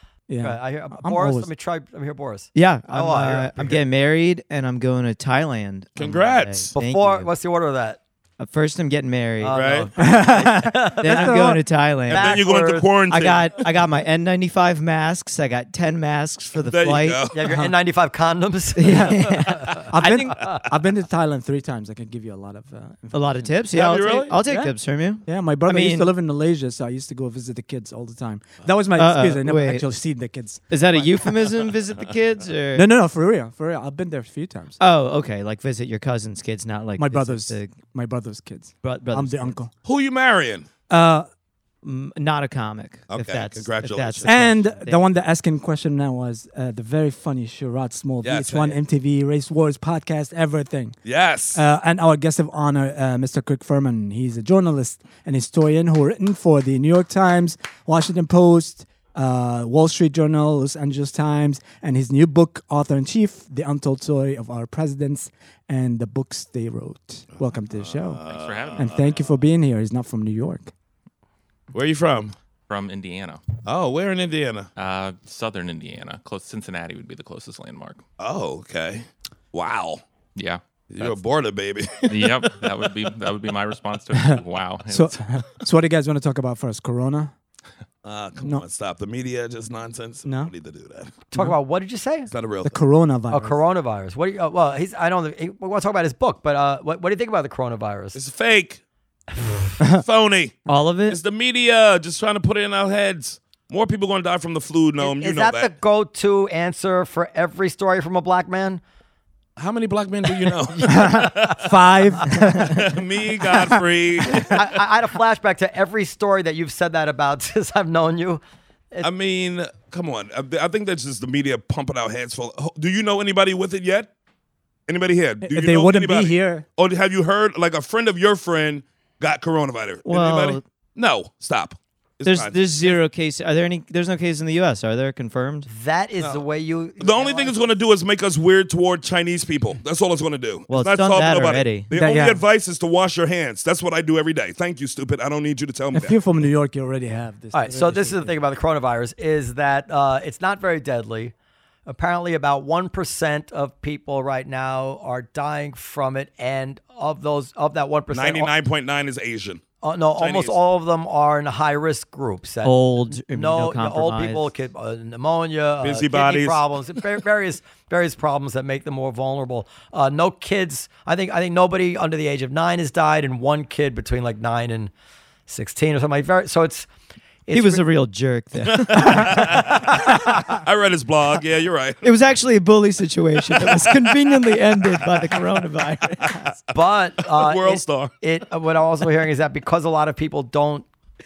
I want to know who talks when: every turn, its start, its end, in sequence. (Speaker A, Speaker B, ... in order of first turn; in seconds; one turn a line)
Speaker A: 0.3-1.5
Speaker B: 0.4-3.8
Speaker C: 2.5-7.3
Speaker D: 6.0-6.7
Speaker B: 6.7-8.0
Speaker C: 8.4-9.6
Speaker B: 9.4-12.9
Speaker D: 9.5-9.9
Speaker A: 10.0-11.6
Speaker C: 10.8-12.4
Speaker D: 12.1-13.6
Speaker C: 13.1-17.2
Speaker D: 16.6-17.4
Speaker B: 17.3-20.7
Speaker A: 17.5-17.7
Speaker C: 18.8-20.4
Speaker A: 18.9-19.2
Speaker A: 19.9-23.6
Speaker C: 23.1-26.1
Speaker D: 23.7-24.4
Speaker A: 24.4-31.1
Speaker C: 28.9-29.8
Speaker C: 30.7-32.8
Speaker A: 32.7-34.8
Speaker C: 34.8-37.7
Speaker A: 37.0-39.7
Speaker C: 38.8-39.5
Speaker D: 39.8-40.7
Speaker A: 40.9-41.3
Speaker C: 41.8-45.0
Speaker D: 43.1-44.5
Speaker A: 44.2-51.0
Speaker D: 48.2-48.8
Speaker D: 51.0-51.6
Speaker A: 51.5-68.2
Speaker D: 67.7-69.2
Speaker E: 68.3-69.2
Speaker A: 68.8-70.7
Speaker D: 71.7-72.3
Speaker E: 72.7-73.5
Speaker D: 73.6-74.7
Speaker E: 74.8-78.0
Speaker D: 78.2-80.0
Speaker E: 80.3-81.2
Speaker D: 80.9-82.6
Speaker E: 82.1-85.2
Speaker A: 84.2-87.3
Speaker D: 88.0-91.2
Speaker A: 88.4-88.6
Speaker A: 90.2-90.5
Speaker B: 91.3-92.3
Speaker D: 92.3-92.8
Speaker A: 92.6-93.6
Speaker B: 93.3-98.2
Speaker D: 98.1-98.8
Speaker D: 100.0-105.7
Speaker C: 100.7-101.2
Speaker B: 105.0-108.8
Speaker D: 109.6-111.8
Speaker A: 110.8-112.9
Speaker D: 112.5-114.7
Speaker B: 114.5-119.1
Speaker D: 119.0-124.1
Speaker D: 124.9-133.0
Speaker A: 125.4-126.7
Speaker C: 130.0-130.6
Speaker C: 132.2-135.7
Speaker B: 135.7-137.6
Speaker D: 137.0-146.2
Speaker C: 140.7-141.9
Speaker A: 141.9-142.4
Speaker A: 145.9-148.3
Speaker B: 147.5-151.3
Speaker B: 151.8-158.5
Speaker D: 158.1-159.6
Speaker B: 159.8-174.9
Speaker D: 160.2-160.6
Speaker C: 162.6-164.5
Speaker D: 165.8-166.6
Speaker B: 175.5-176.9
Speaker B: 177.4-177.8
Speaker C: 177.5-179.8
Speaker D: 178.6-182.0
Speaker C: 182.0-186.4
Speaker D: 183.5-184.1
Speaker D: 184.8-185.6
Speaker D: 186.2-186.6
Speaker B: 186.7-190.9
Speaker D: 187.2-188.1